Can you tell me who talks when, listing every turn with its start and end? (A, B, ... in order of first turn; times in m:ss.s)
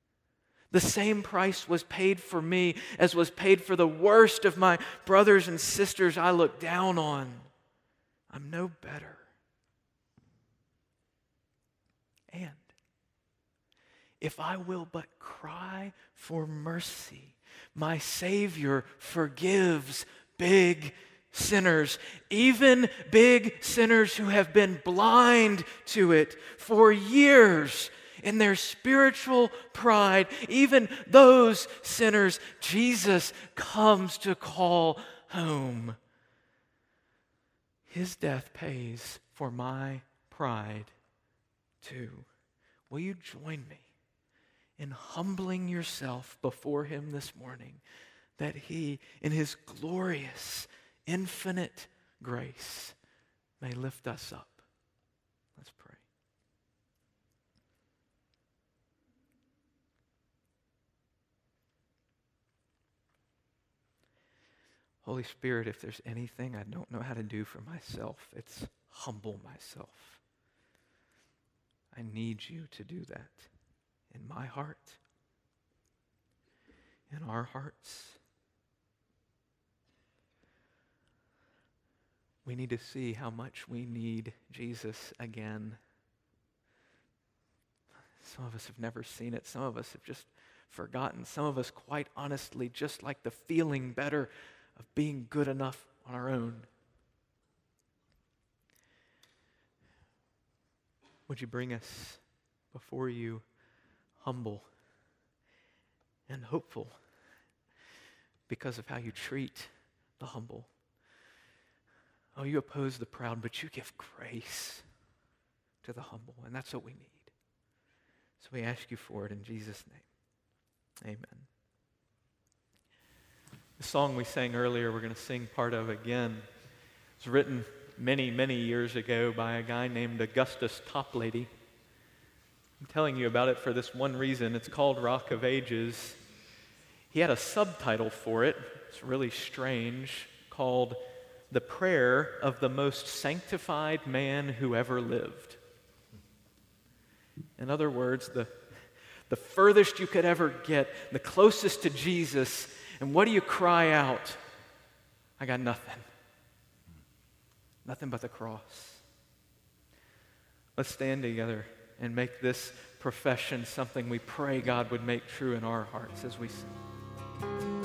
0:00.7-0:07.5 A
0:08.3-0:09.3 A
0:12.3-0:12.7 A
0:14.2-0:36.0 A
0:37.9-0:40.9 A
0:41.8-0:42.3 A
0:42.9-0:43.9 A
0:44.8-0:47.8 A
0:48.4-0:53.0 A
0:53.6-0:54.6 A
0:55.5-0:56.0 A
1:05.0-1:10.2 A
1:11.9-1:13.5 A
1:14.1-1:15.0 A
1:17.1-1:18.2 A
1:22.4-1:25.8 A
1:28.2-1:36.7 A
1:41.3-1:43.4 A
1:44.2-1:44.6 A
1:46.3-1:46.9 A
1:48.5-1:50.7 A
1:52.3-1:54.8 A
1:55.8-1:57.3 A
1:58.4-2:00.1 A
2:01.0-2:01.5 A
2:03.8-2:06.5 A
2:07.2-2:11.5 A
2:12.8-2:16.2 A
2:17.1-2:21.0 A
2:21.5-2:25.6 A
2:27.6-2:28.6 A
2:29.3-2:34.4 A
2:35.4-2:36.0 A
2:37.8-2:39.0 A
2:40.8-2:46.7 A